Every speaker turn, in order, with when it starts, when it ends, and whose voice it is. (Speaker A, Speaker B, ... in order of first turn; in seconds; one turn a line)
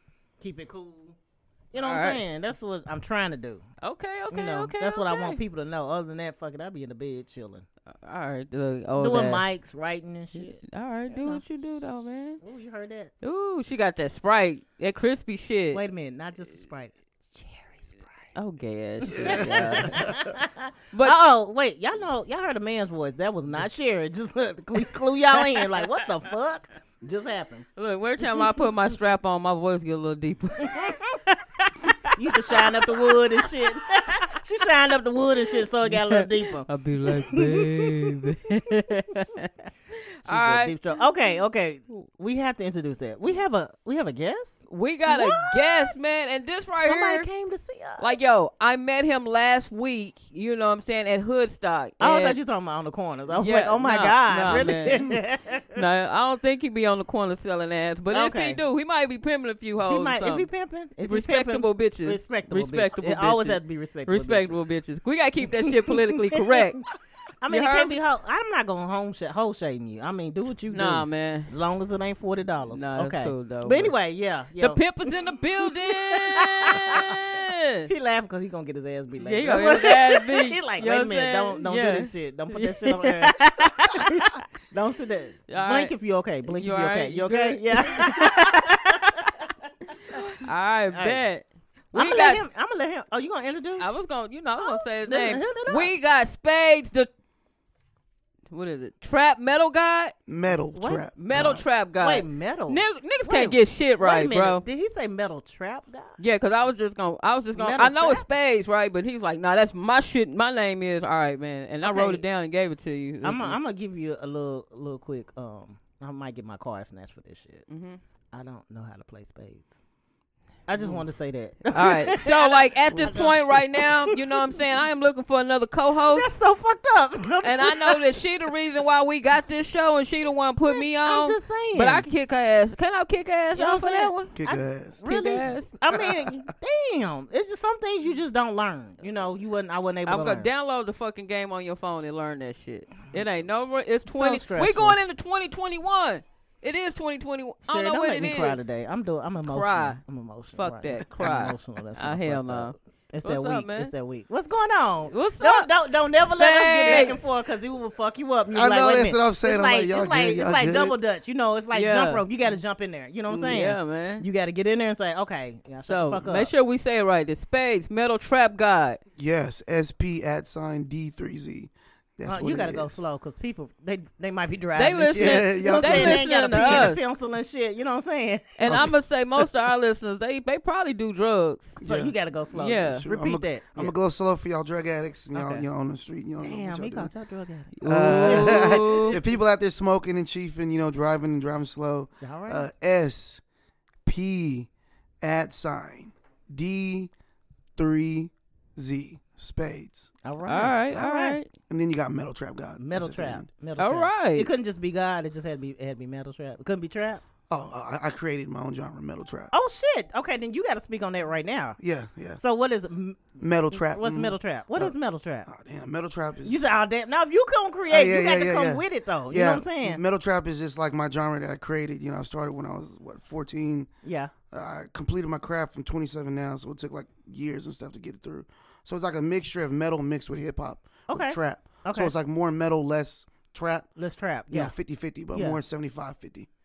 Speaker A: 0.4-1.1
Speaker A: 1.7-3.6
Speaker B: 1.8-2.2
Speaker B: 3.8-5.4
Speaker A: 4.3-7.7
Speaker B: 7.9-9.4
Speaker A: 9.0-11.4
Speaker B: 10.3-12.4
Speaker A: 12.4-14.2
Speaker B: 13.2-15.8
Speaker A: 15.7-18.3
Speaker B: 18.3-20.0
Speaker C: 19.1-20.3
Speaker A: 19.1-27.6
Speaker B: 27.8-30.9
Speaker A: 30.6-31.4
Speaker A: 32.1-38.4
Speaker B: 32.5-32.8
Speaker B: 35.9-39.5
Speaker B: 40.2-40.8
Speaker A: 40.2-45.9
Speaker B: 44.7-47.3
Speaker A: 46.8-48.1
Speaker B: 48.0-52.4
Speaker A: 52.0-55.8
Speaker B: 53.4-55.0
Speaker B: 55.7-60.5
Speaker A: 58.1-58.6
Speaker A: 59.8-64.5
Speaker B: 61.0-66.8
Speaker A: 65.5-66.8
Speaker A: 67.4-75.1
Speaker B: 67.5-68.0
Speaker B: 70.7-71.5
Speaker B: 72.7-73.9
Speaker B: 74.6-77.9
Speaker A: 75.9-77.2
Speaker A: 77.9-89.4
Speaker B: 79.2-83.3
Speaker B: 85.5-85.9
Speaker B: 86.5-89.3
Speaker B: 90.1-92.5
Speaker A: 90.9-91.2
Speaker A: 91.9-93.9
Speaker B: 93.8-97.1
Speaker A: 94.6-95.9
Speaker B: 98.5-100.1
Speaker C: 100.3-101.6
Speaker A: 100.7-101.1
Speaker B: 101.2-104.6
Speaker A: 102.0-106.2
Speaker B: 106.2-113.6
Speaker A: 107.5-108.2
Speaker A: 111.8-112.2
Speaker A: 113.2-117.6
Speaker B: 117.7-118.0
Speaker A: 118.3-119.8
Speaker A: 120.7-124.1
Speaker B: 120.8-121.0
Speaker B: 121.7-126.3
Speaker A: 126.1-128.1
Speaker B: 127.4-134.3
Speaker A: 130.7-132.1
Speaker A: 133.6-140.5
Speaker C: 134.3-135.0
Speaker B: 135.1-135.7
Speaker C: 135.9-136.3
Speaker B: 140.1-148.6
Speaker A: 144.1-145.0
Speaker A: 147.7-166.5
Speaker B: 149.4-150.0
Speaker B: 150.5-153.9
Speaker B: 155.1-155.7
Speaker B: 156.2-157.2
Speaker C: 158.5-160.9
Speaker B: 161.7-162.2
Speaker B: 163.3-164.2
Speaker B: 165.8-169.0
Speaker C: 169.2-173.0
Speaker A: 172.2-178.9
Speaker B: 174.8-177.0
Speaker C: 175.1-176.9
Speaker B: 178.6-181.8
Speaker C: 178.7-178.9
Speaker C: 181.8-182.1
Speaker A: 181.8-183.9
Speaker B: 182.5-183.0
Speaker C: 182.9-187.1
Speaker A: 185.3-185.7
Speaker A: 186.4-189.3
Speaker B: 187.8-189.2
Speaker C: 187.8-193.4
Speaker A: 192.2-192.7
Speaker C: 194.0-194.7
Speaker C: 195.2-197.1
Speaker C: 197.8-200.1
Speaker A: 200.2-201.4
Speaker B: 200.4-201.5
Speaker C: 201.7-203.5
Speaker A: 202.8-207.2
Speaker B: 203.8-204.5
Speaker C: 207.5-209.5
Speaker A: 209.5-211.8
Speaker C: 211.8-212.4
Speaker A: 212.4-215.5
Speaker C: 213.4-214.9
Speaker C: 215.5-216.7
Speaker A: 216.4-220.0
Speaker C: 217.9-223.9
Speaker A: 224.0-224.3
Speaker C: 224.5-233.9
Speaker A: 231.1-232.1
Speaker A: 233.9-234.8
Speaker C: 234.5-236.5
Speaker A: 235.3-235.6